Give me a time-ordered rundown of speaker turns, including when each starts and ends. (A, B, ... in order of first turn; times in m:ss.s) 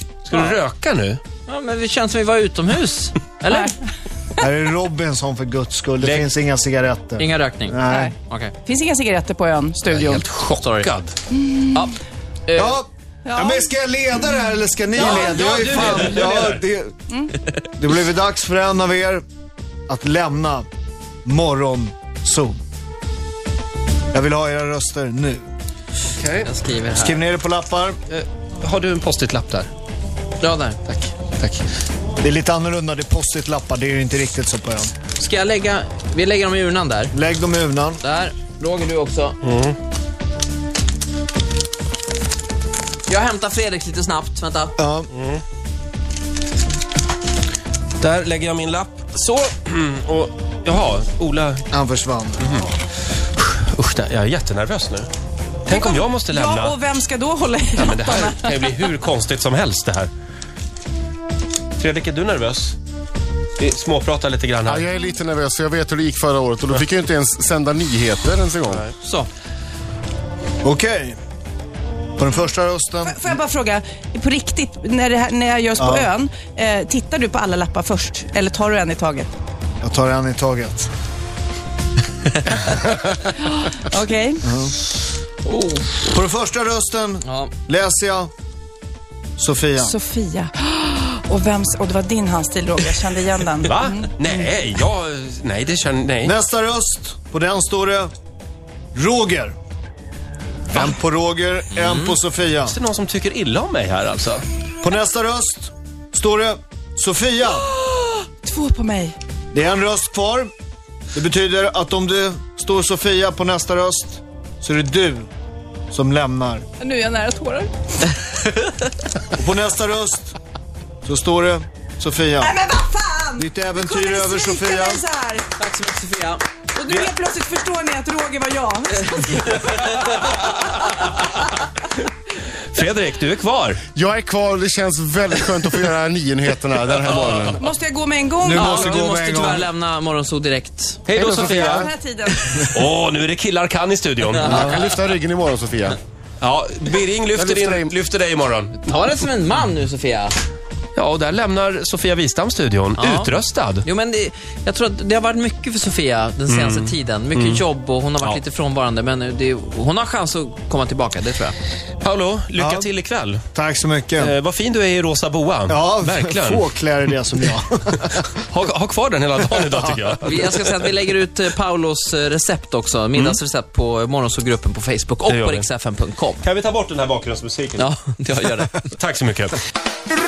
0:00.3-0:01.2 A
0:00.3-0:00.6 B
0:01.5-0:03.7 B
0:04.4-0:08.1 C
0:06.0-0:06.3 A
0:07.2-0:08.5 B
0:07.9-0:10.2 D
0:09.9-0:11.0 B
0:10.2-0:11.1 A
0:11.3-0:11.9 D
0:11.7-0:12.8 B
0:12.5-0:16.9 C
0:13.3-0:13.7 D
0:15.0-0:16.6 A
0:15.0-0:16.4 B
0:17.7-0:19.2 C
0:19.9-0:20.7 C
0:21.2-0:22.6 C
0:24.1-0:25.4 C
0:26.2-0:26.5 A
0:26.4-0:27.3 B
0:27.0-0:28.0 C
0:28.1-0:29.7 A
0:30.4-0:30.8 B
0:30.9-0:31.6 A
0:32.2-0:34.9 C
0:35.2-0:37.2 B
0:37.1-0:38.0 C
0:38.0-0:39.4 B
0:39.4-0:39.8 A
0:43.1-0:44.8 B
0:44.8-0:45.1 C
0:45.1-0:45.4 A
0:48.0-0:51.6 A
0:51.7-0:52.6 C
0:52.4-0:52.7 A
0:53.4-0:55.1 A
0:55.7-0:56.8 A
0:55.7-0:58.7 D
0:57.8-1:00.1 A
1:01.8-1:02.8 A
1:03.6-1:04.9 A
1:04.6-1:08.9 E
1:09.0-1:09.3 B
1:10.6-1:11.2 C
1:12.2-1:13.3 C
1:13.0-1:19.3 D
1:15.8-1:16.1 C
1:19.8-1:20.9 C
1:23.6-1:24.5 D
1:24.4-1:24.8 C
1:25.4-1:26.1 B
1:26.0-1:28.3 C
1:27.2-1:27.5 B
1:29.4-1:30.0 C
1:29.8-1:34.1 D
1:33.6-1:36.3 A
1:36.2-1:38.1 C
1:39.0-1:39.5 C
1:40.7-1:42.8 C
1:41.7-1:42.2 B
1:42.7-1:44.4 A
1:44.8-1:47.7 C
1:47.8-1:49.2 D
1:49.5-1:50.5 C
1:51.1-1:55.3 C
1:55.9-1:56.6 C
1:56.8-1:57.7 D
1:59.3-2:00.4 C
2:01.0-2:02.6 C
2:02.4-2:05.5 D
2:03.4-2:05.0 C
2:05.6-2:06.4 B
2:06.7-2:09.9 D
2:09.7-2:10.4 B
2:12.7-2:13.8 A
2:14.0-2:17.6 E
2:17.6-2:18.7 D
2:18.4-2:19.7 C
2:18.5-2:21.8 B
2:21.1-2:21.9 A
2:21.1-2:21.9 E
2:21.6-2:22.7 D
2:22.7-2:24.8 A
2:24.3-2:24.9 B
2:24.4-2:26.0 E
2:26.4-2:29.0 A
2:27.3-2:28.0 E
2:28.8-2:30.4 B
2:31.0-2:33.9 A
2:33.0-2:41.6 B
2:36.5-2:37.7 A
2:42.0-2:43.4 A
2:42.6-2:42.9 C
2:43.5-2:44.3 C
2:44.2-2:46.7 A
2:45.7-2:48.3 C
2:48.3-2:50.9 A
2:49.6-2:50.0 C
2:50.2-2:56.4 B
2:53.1-2:53.4 A
2:55.2-2:55.7 A
2:56.4-2:57.9 A
2:57.8-2:58.9 B
2:58.8-2:59.6 A